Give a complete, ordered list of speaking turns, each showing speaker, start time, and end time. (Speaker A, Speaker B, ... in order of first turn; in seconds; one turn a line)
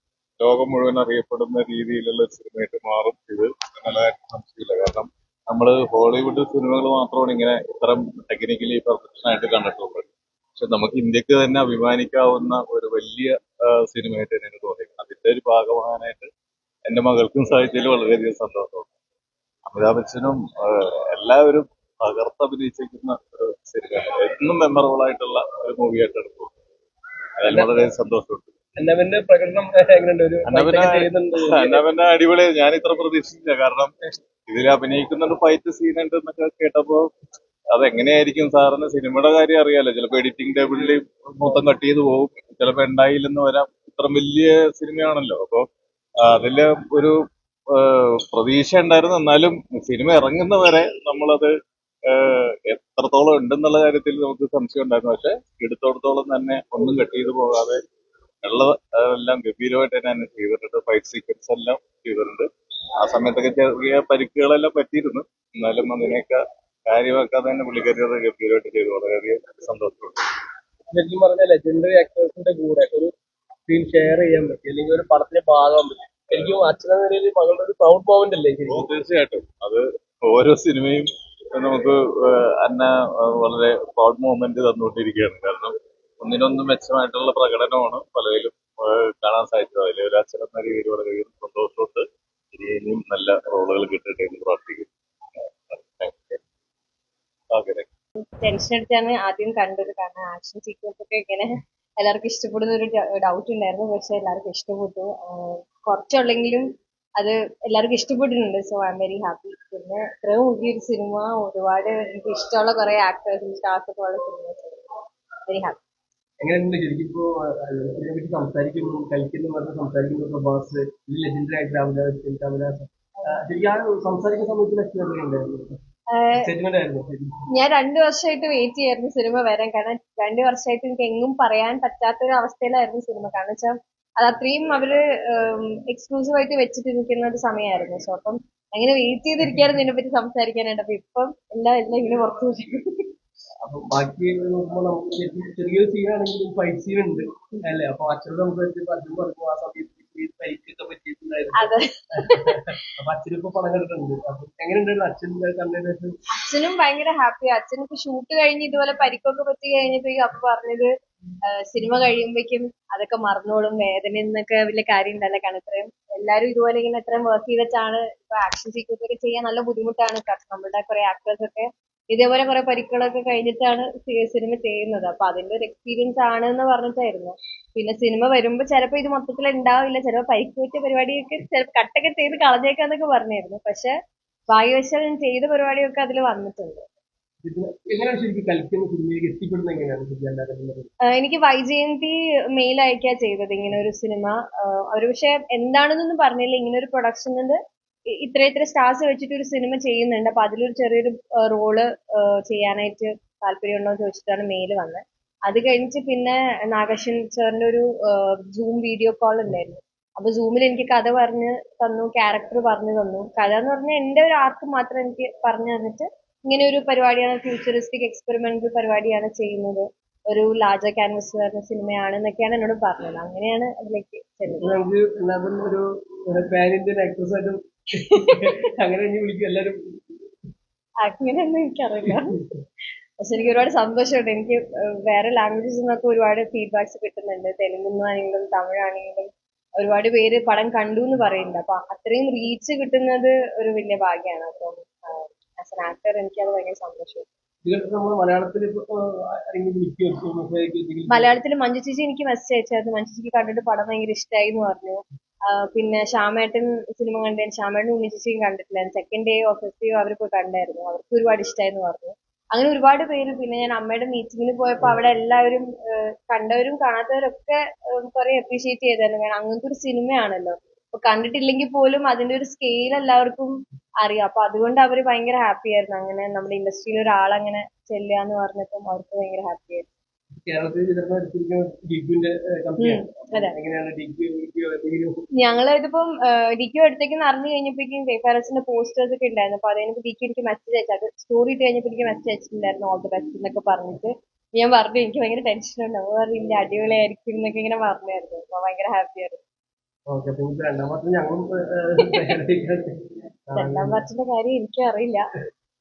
Speaker A: 0.4-16.3
Speaker A: 16.9-18.9
Speaker A: 19.7-26.5
Speaker A: 27.4-28.5
Speaker B: 27.5-27.8
Speaker B: 28.8-31.8
Speaker A: 30.5-33.9
Speaker A: 34.5-37.1
Speaker A: 37.7-45.6
Speaker A: 46.2-47.1
Speaker A: 47.7-51.5
Speaker A: 52.1-57.8
Speaker A: 58.4-62.5
Speaker A: 63.0-70.2
Speaker B: 70.9-73.1
Speaker B: 73.7-78.9
Speaker A: 78.7-94.9
Speaker A: 95.4-96.4
Speaker A: 97.5-97.9
Speaker C: 98.2-106.7
Speaker C: 107.2-114.8
Speaker C: 115.5-115.8
Speaker B: 116.4-125.8
Speaker C: 126.1-126.4
Speaker B: 126.3-127.3
Speaker C: 127.5-143.1
Speaker B: 143.6-156.1
Speaker C: 151.6-152.7
Speaker C: 156.3-160.9
Speaker C: 161.5-183.9
Speaker C: 184.5-186.8
Speaker B: 187.4-190.9
Speaker C: 191.1-197.6
Speaker C: 198.2-224.8
Speaker B: 224.6-230.2
Speaker C: 228.1-228.5
Speaker C: 231.0-232.5
Speaker C: 233.2-247.2
Speaker B: 247.6-251.3
Speaker C: 251.1-255.0
Speaker C: 255.5-279.8
Speaker B: 280.4-285.2
Speaker C: 282.8-283.6
Speaker C: 285.4-299.4
Speaker B: 300.1-302.9
Speaker B: 303.5-304.0
Speaker C: 303.5-305.2